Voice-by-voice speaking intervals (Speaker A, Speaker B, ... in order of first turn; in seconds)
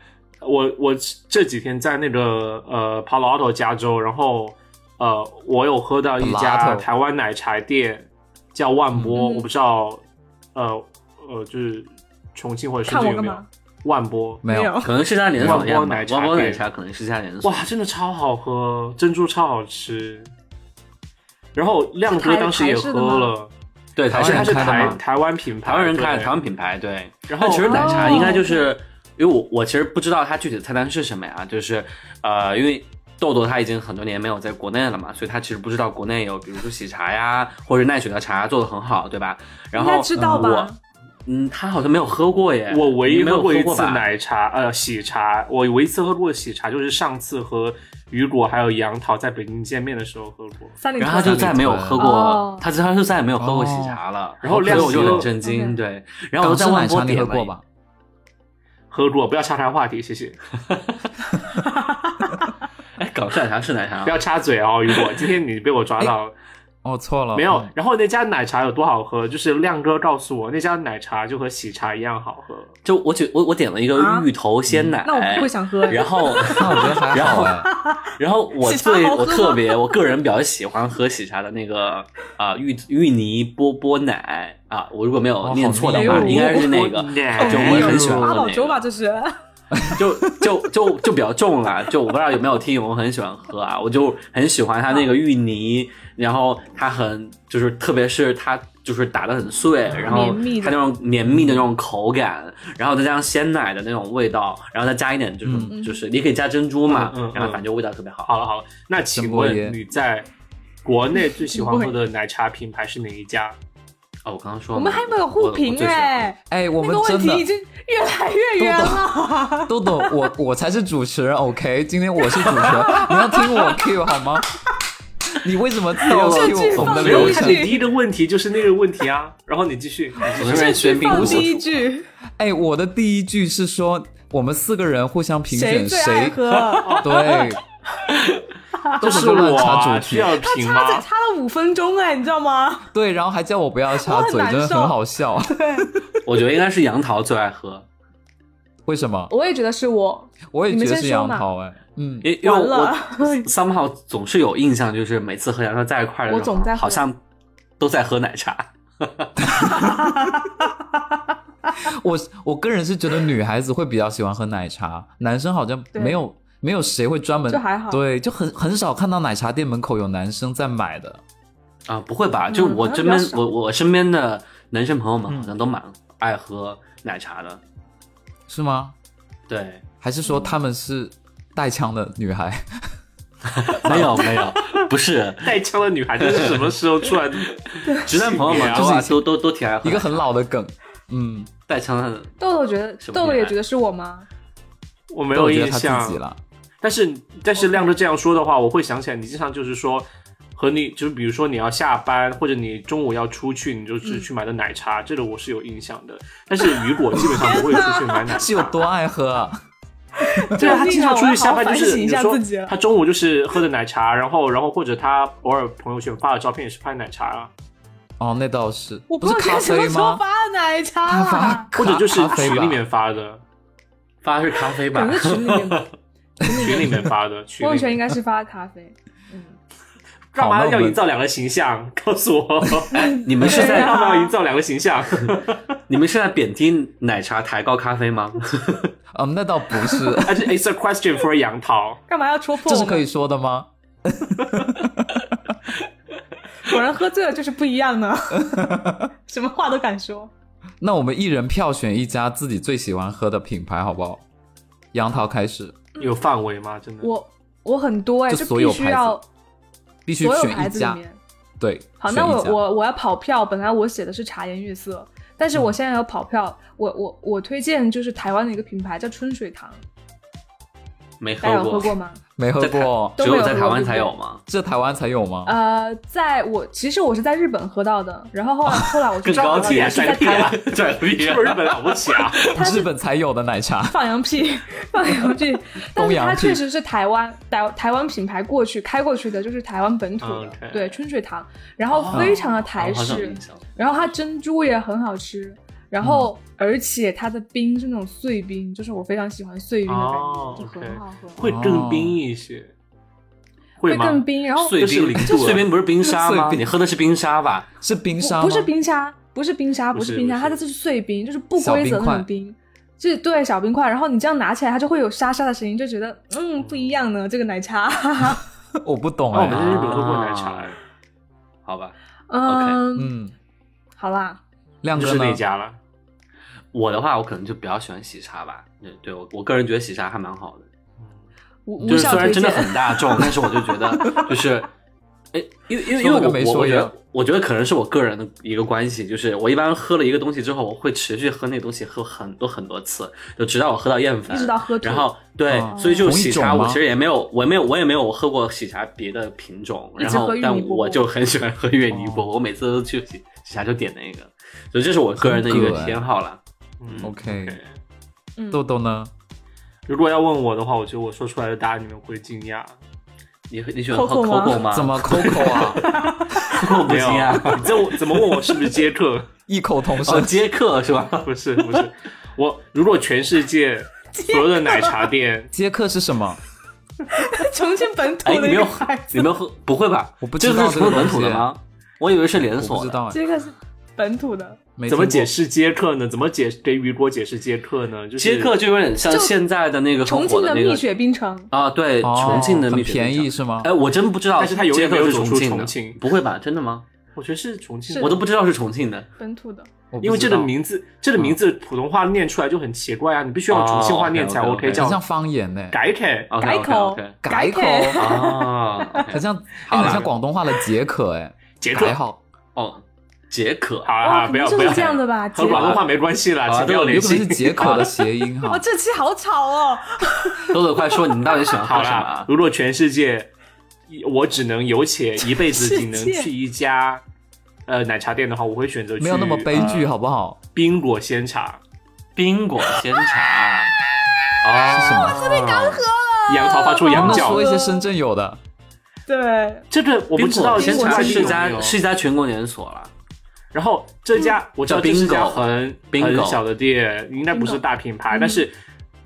Speaker A: 0.4-10.0, 10.5-14.4, 15.3-16.6, 17.4-20.3, 21.5-23.5, 24.1-26.3, 27.3-28.4, 42.7-50.8, 54.4-55.3, 58.9-60.4, 64.0-66.3, 67.3-72.7, 86.5-88.1, 106.9-107.6, 108.2-110.3, 110.8-113.5, 126.8-130.8, 136.8-137.1, 139.0-141.1, 185.4-189.0, 195.1-196.2, 196.8-208.8, 210.6-217.5, 221.7-223.4, 226.5-228.0, 230.3-235.6, 240.2-242.0, 256.0-257.1, 279.3-282.4, 290.2-291.0, 291.9-292.4, 299.9-302.7, 303.8-305.7, 309.9-310.6, 316.6-317.0, 319.3-320.8, 324.9-325.8, 356.8-357.7, 359.9-362.7, 366.8-369.3, 371.2-375.5, 384.9-388.5, 394.4-396.0, 397.1-398.2, 400.0-405.0, 405.7-406.3, 409.7-410.1, 411.6-411.9, 413.8-417.9, 421.6-423.3, 423.9-427.0, 427.7-429.9, 430.5-431.6, 436.3-437.4, 439.7-441.8, 443.5-448.5
Speaker B: 6.2-6.9, 14.4-14.8, 15.4-15.7, 24.1-25.0, 40.1-40.5, 51.1-52.1, 53.4-55.3, 56.4-57.6, 66.8-67.7, 74.7-75.0, 76.5-77.7, 85.4-86.5, 87.7-88.3, 89.7-90.6, 101.3-101.7, 105.4-105.7, 109.1-109.8, 116.5-117.5, 118.6-124.5, 125.4-127.8, 131.0-131.5, 132.4-137.6, 139.0-140.3, 142.9-146.1, 148.8-149.3, 150.5-152.3, 159.4-160.4, 161.8-171.2, 175.3-175.5, 178.5-178.9, 180.0-182.9, 183.8-184.3, 188.4-189.2, 189.8-191.5, 195.3-196.4, 208.3-209.6, 210.4-210.7, 218.2-220.2, 221.1-222.8, 230.4-231.0, 239.1-240.5, 242.7-245.3, 248.3-249.1, 250.8-254.2, 254.9-255.8, 258.3-259.2, 260.1-261.0, 261.6-262.6, 272.4-273.2, 274.5-275.5, 282.5-284.0, 285.9-286.6, 292.1-292.4, 296.0-296.3, 301.4-302.2, 306.0-306.6, 307.8-308.7, 311.6-312.3, 318.8-320.1, 323.0-323.3, 324.8-325.4, 331.8-332.4, 335.9-336.9, 345.5-346.8, 351.9-352.3, 355.2-356.0, 357.0-357.6, 358.5-359.1, 364.7-365.9, 369.5-370.3, 375.5-376.4, 380.2-381.5, 382.6-383.2, 384.8-385.3, 392.0-393.7, 399.9-400.5, 404.7-405.8, 407.2-408.1, 409.1-412.2, 416.9-418.6, 429.0-430.4, 434.7-435.3, 436.9-438.4
Speaker C: 9.1-9.4, 12.9-13.5, 14.5-14.9, 22.1-23.3, 27.6-28.6, 39.7-40.8, 50.8-52.6, 55.4-55.8, 73.9-74.3, 75.0-80.0, 85.9-89.4, 100.0-100.8, 105.7-106.0, 111.1-111.9, 114.7-120.2, 122.4-123.8, 126.2-127.8, 130.4-132.1, 135.5-137.5, 138.8-139.7, 140.3-142.9, 144.0-145.9, 149.3-151.4, 152.4-153.5, 156.3-157.0, 159.7-161.0, 165.9-166.2, 167.5-168.0, 172.5-173.5, 180.3-180.5, 192.4-194.3, 197.6-197.9, 207.2-208.2, 210.2-212.7, 219.1-221.7, 224.9-225.9, 226.4-226.9, 227.6-229.6, 232.9-234.3, 242.1-243.1, 246.6-250.3, 257.0-259.2, 260.2-261.2, 262.0-269.8, 271.4-272.2, 273.2-274.1, 275.4-280.6, 282.5-282.9, 283.9-301.4, 303.8-304.8, 308.2-318.4, 322.3-323.1, 324.0-324.4, 331.7-334.2, 344.3-345.1, 345.6-346.1, 350.0-351.1, 358.4-358.6, 363.9-364.6, 365.6-366.8, 374.1-375.0, 377.1-379.3, 383.1-384.6, 389.1-389.3, 390.0-391.5, 397.9-398.2, 399.2-399.7, 406.4-409.0, 414.0-415.6, 418.4-420.6, 425.3-426.3, 434.8-437.9, 439.1-439.6, 440.5-441.5, 447.3-448.4
Speaker D: 14.8-17.6, 23.9-25.0, 25.6-40.7, 41.2-44.1, 51.0-57.5, 60.6-61.0, 63.0-64.2, 72.8-77.5, 78.1-88.8, 89.9-108.3, 114.2-116.3, 126.0-127.4, 130.2-131.7, 146.2-147.8, 152.2-157.2, 157.8-159.3, 171.9-177.6, 179.5-179.8, 183.5-185.6, 186.2-186.6, 187.9-190.2, 191.7-192.3, 193.0-193.5, 224.2-225.8, 233.0-233.9, 235.9-238.9, 271.2-271.9, 272.6-274.4, 279.2-282.6, 292.6-293.6, 304.6-307.7, 319.4-320.7, 321.6-322.8, 326.7-330.7, 331.9-334.7, 335.3-357.1, 363.5-368.5, 370.0-371.9, 378.2-383.0, 388.2-390.8, 391.5-396.8, 398.0-399.1, 403.5-404.9, 406.3-407.2, 407.9-410.1, 412.5-413.9, 415.5-415.9, 416.4-417.9, 420.4-422.3, 432.1-433.7, 434.4-435.8, 440.1-442.9, 444.6-446.4